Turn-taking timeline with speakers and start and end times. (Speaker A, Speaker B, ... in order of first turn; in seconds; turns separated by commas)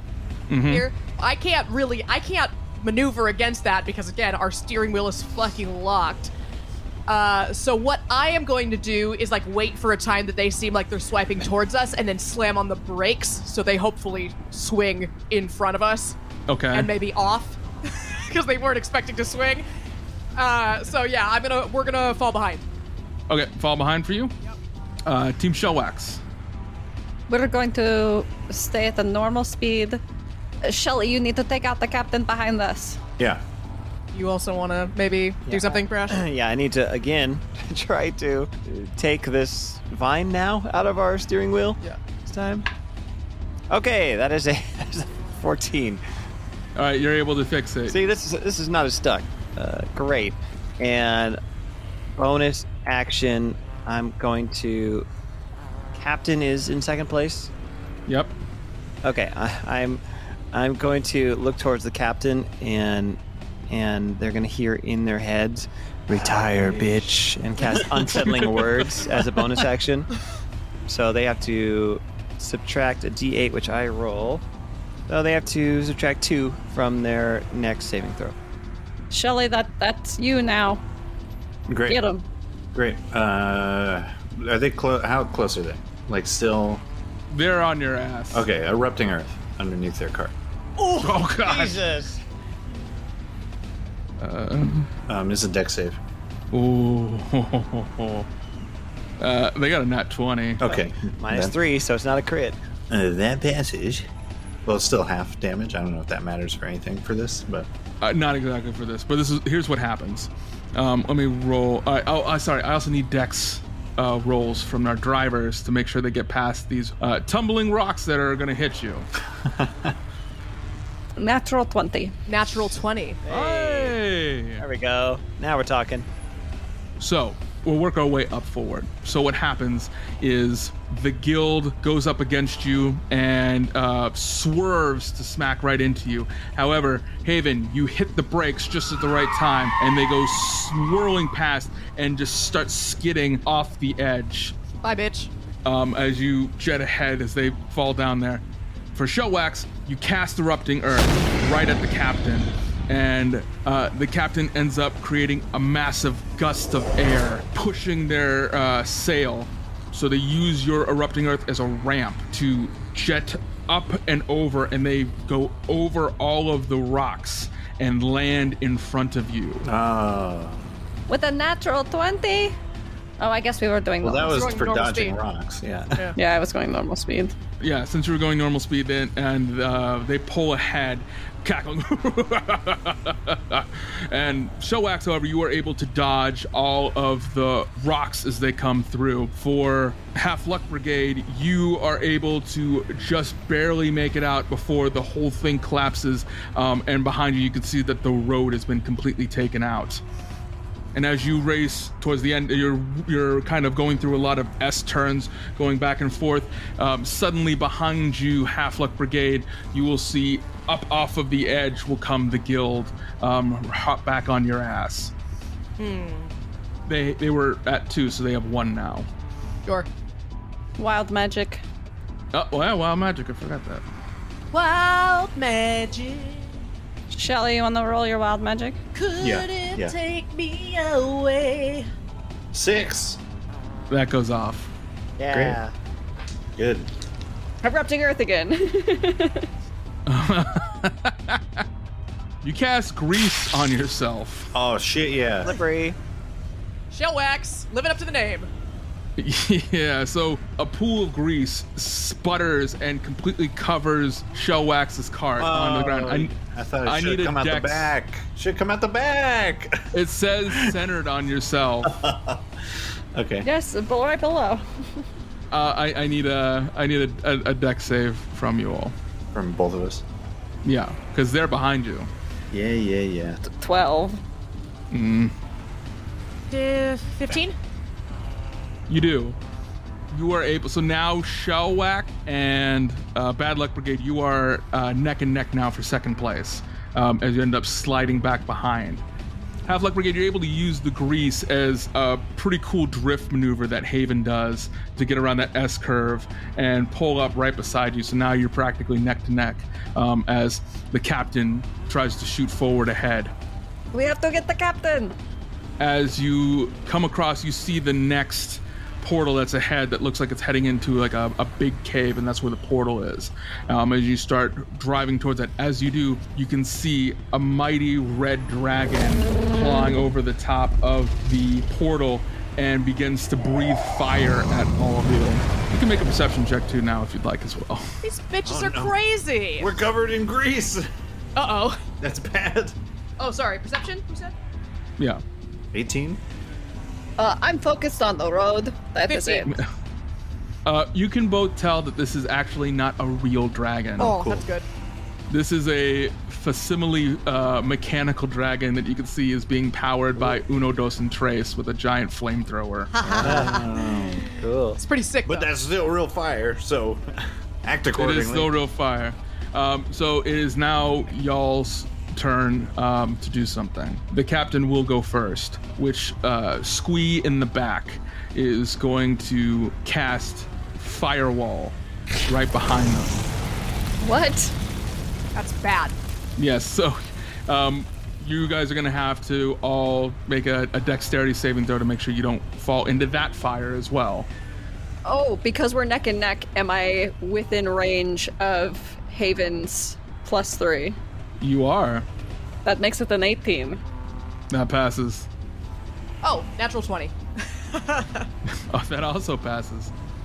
Speaker A: 0.5-0.9, Speaker B: 0.7-6.3, Speaker B: 7.1-16.2, Speaker A: 16.5-16.9, Speaker B: 16.7-19.6, Speaker B: 20.4-22.6, Speaker A: 23.3-24.3, Speaker A: 25.1-26.2, Speaker C: 27.3-30.0, Speaker C: 30.6-33.0, Speaker B: 34.1-36.2, Speaker D: 35.5-42.7, Speaker D: 43.7-46.0, Speaker A: 46.8-48.1, Speaker D: 47.9-51.4, Speaker D: 52.2-55.1, Speaker D: 55.9-57.5, Speaker A: 58.1-58.4, Speaker D: 59.0-60.0, Speaker D: 60.5-70.1, Speaker E: 68.2-68.5, Speaker D: 70.9-74.4, Speaker D: 75.1-78.4, Speaker C: 79.1-80.8, Speaker E: 81.7-82.0, Speaker C: 81.9-82.2, Speaker E: 82.7-86.8, Speaker A: 87.3-88.5, Speaker E: 88.3-90.3, Speaker D: 90.8-92.2, Speaker A: 91.0-91.8, Speaker A: 94.2-94.9, Speaker E: 95.1-96.0, Speaker A: 96.5-98.3, Speaker A: 99.2-100.6, Speaker E: 100.6-101.6, Speaker D: 100.6-102.6, Speaker E: 102.9-104.1, Speaker E: 104.7-107.7, Speaker A: 108.0-119.1, Speaker E: 119.4-120.0, Speaker C: 121.2-122.2, Speaker B: 122.3-123.2, Speaker D: 123.2-124.0, Speaker A: 123.3-124.7, Speaker D: 124.6-126.1, Speaker A: 127.0-144.5, Speaker B: 144.8-145.3, Speaker A: 145.7-148.4, Speaker A: 148.9-169.7, Speaker E: 169.6-170.6, Speaker C: 171.1-172.6, Speaker C: 173.2-174.5, Speaker E: 174.0-176.1, Speaker B: 174.3-175.2, Speaker C: 176.2-177.3, Speaker A: 177.6-200.0, Speaker A: 200.9-215.1, Speaker B: 215.8-216.3, Speaker A: 216.9-219.1, Speaker C: 220.8-221.6, Speaker A: 222.3-223.8, Speaker B: 224.5-226.6, Speaker C: 227.1-228.8, Speaker B: 228.9-231.9, Speaker E: 229.2-230.0, Speaker E: 232.5-233.2, Speaker A: 233.9-234.7, Speaker D: 235.2-235.7, Speaker E: 235.3-235.6, Speaker E: 236.6-236.9, Speaker C: 237.6-239.5, Speaker A: 240.1-241.6, Speaker A: 242.4-244.5, Speaker E: 244.5-245.6, Speaker D: 245.4-246.0, Speaker B: 246.9-248.5, Speaker A: 249.2-256.3, Speaker E: 255.4-259.8, Speaker A: 256.9-257.9, Speaker A: 259.9-262.0, Speaker E: 261.8-262.4, Speaker E: 263.1-263.5, Speaker C: 263.4-264.6, Speaker A: 265.5-268.9, Speaker E: 269.3-270.0, Speaker A: 270.6-272.1, Speaker E: 272.5-273.4, Speaker C: 273.5-274.2, Speaker A: 274.9-275.3, Speaker B: 276.5-277.6, Speaker A: 278.9-279.4, Speaker A: 280.1-289.0, Speaker A: 289.7-303.3, Speaker C: 303.9-305.1, Speaker A: 305.8-328.0, Speaker B: 328.0-329.7, Speaker E: 328.4-329.0, Speaker E: 329.6-330.9, Speaker B: 331.4-331.8, Speaker E: 332.0-332.8, Speaker B: 333.2-334.3, Speaker A: 335.0-335.2, Speaker E: 335.7-336.2, Speaker C: 337.2-339.5, Speaker B: 339.1-339.5, Speaker A: 340.6-344.2, Speaker B: 344.0-344.7, Speaker E: 344.2-344.4, Speaker A: 345.3-352.9, Speaker B: 352.9-354.2, Speaker E: 353.0-358.5, Speaker D: 353.2-353.5, Speaker B: 354.8-355.5, Speaker A: 358.0-373.2, Speaker C: 374.0-374.5, Speaker B: 375.4-375.9, Speaker A: 376.4-384.3, Speaker C: 385.1-391.0, Speaker A: 391.4-392.1, Speaker C: 392.6-393.8, Speaker A: 394.5-395.3, Speaker B: 396.2-398.3, Speaker A: 398.7-399.9